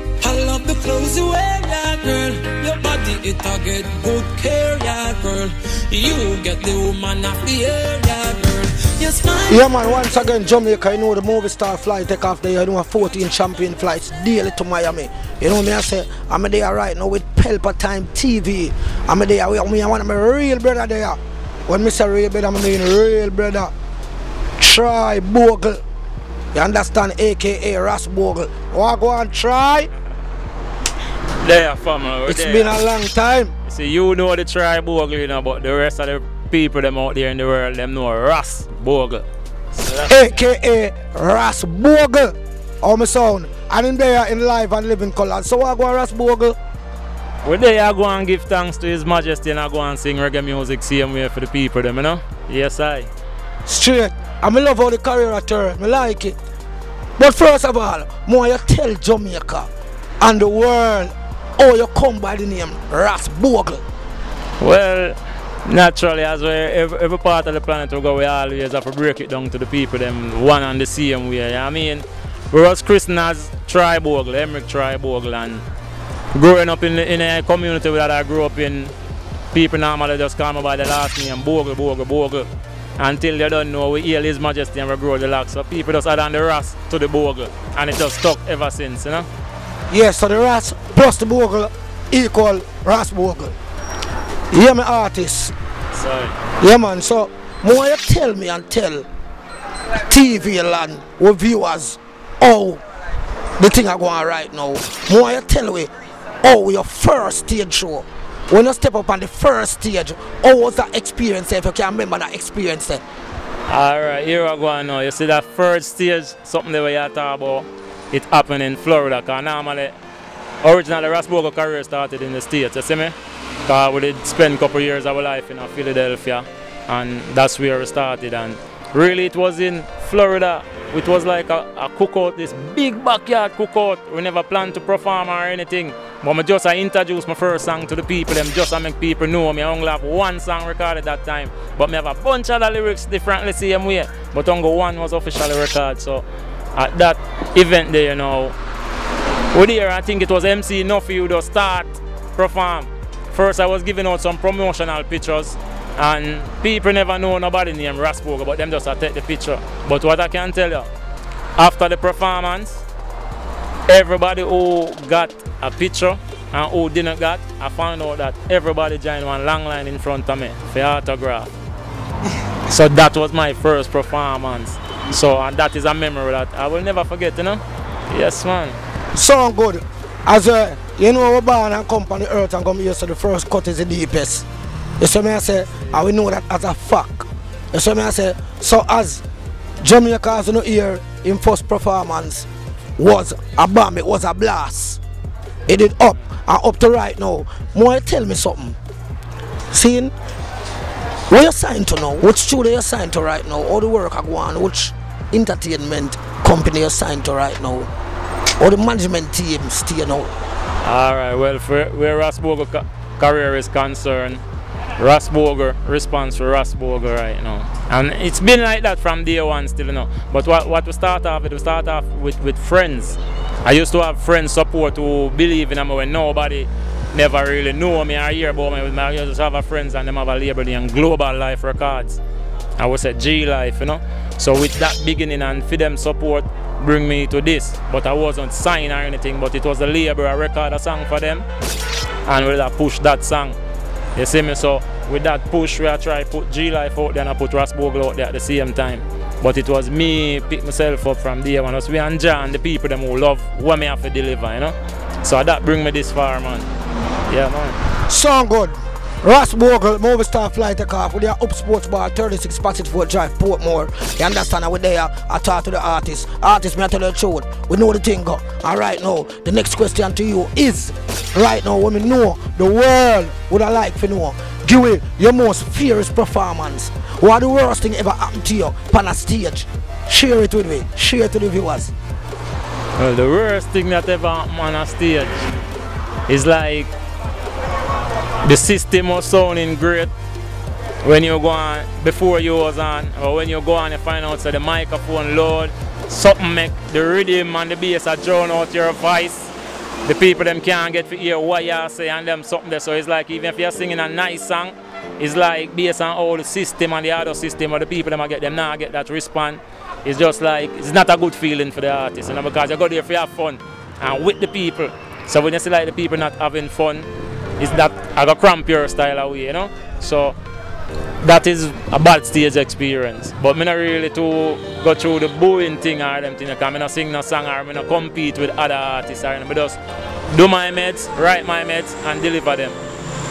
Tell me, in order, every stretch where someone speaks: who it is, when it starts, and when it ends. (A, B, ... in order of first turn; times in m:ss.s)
0:00.2-0:10.0 A
0:09.5-0:23.7 B
0:24.6-0:25.8 B
0:26.5-0:29.9 B
0:31.4-0:32.8 C
0:32.3-0:33.5 B
0:33.7-0:40.1 C
0:40.1-0:46.6 B
0:47.4-0:53.1 C
0:53.7-0:56.4 B
0:57.2-0:59.7 B
1:00.2-1:03.8 B
1:04.6-1:05.2 C
1:05.7-1:15.6 C
1:16.3-1:18.9 C
1:19.5-1:22.5 C
1:23.0-1:29.3 C
1:29.9-1:33.5 B
1:34.5-1:35.5 B
1:36.0-1:36.4 C
1:36.6-1:39.1 B
1:40.0-1:42.8 B
1:43.6-1:45.9 B
1:46.4-1:53.0 B
1:53.7-2:00.0 C
2:00.6-2:03.2 C
2:03.7-2:26.2 C
2:26.8-2:28.6 C
2:29.5-2:40.9 C
2:41.6-2:42.8 C
2:43.9-2:51.5 C
2:52.7-2:58.8 C
2:59.2-3:04.5 B
3:05.0-3:09.2 B
3:09.8-3:12.5 B
3:13.0-3:15.0 B
3:15.7-3:18.8 B
3:19.7-3:20.1 B
3:21.3-3:27.9 B
3:28.6-3:30.3 B
3:30.8-3:34.4 C
3:35.0-3:52.2 C
3:52.8-4:01.4 C
4:02.3-4:03.6 C
4:04.2-4:16.7 C
4:17.3-4:17.8 C
4:18.1-4:41.9 B
4:43.0-4:45.4 C
4:46.3-4:46.9 C
4:48.4-4:50.1 C
4:51.0-4:59.5 C
5:00.0-5:17.1 C
5:17.6-5:20.4 C
5:21.2-5:29.8 C
5:30.3-5:32.8 C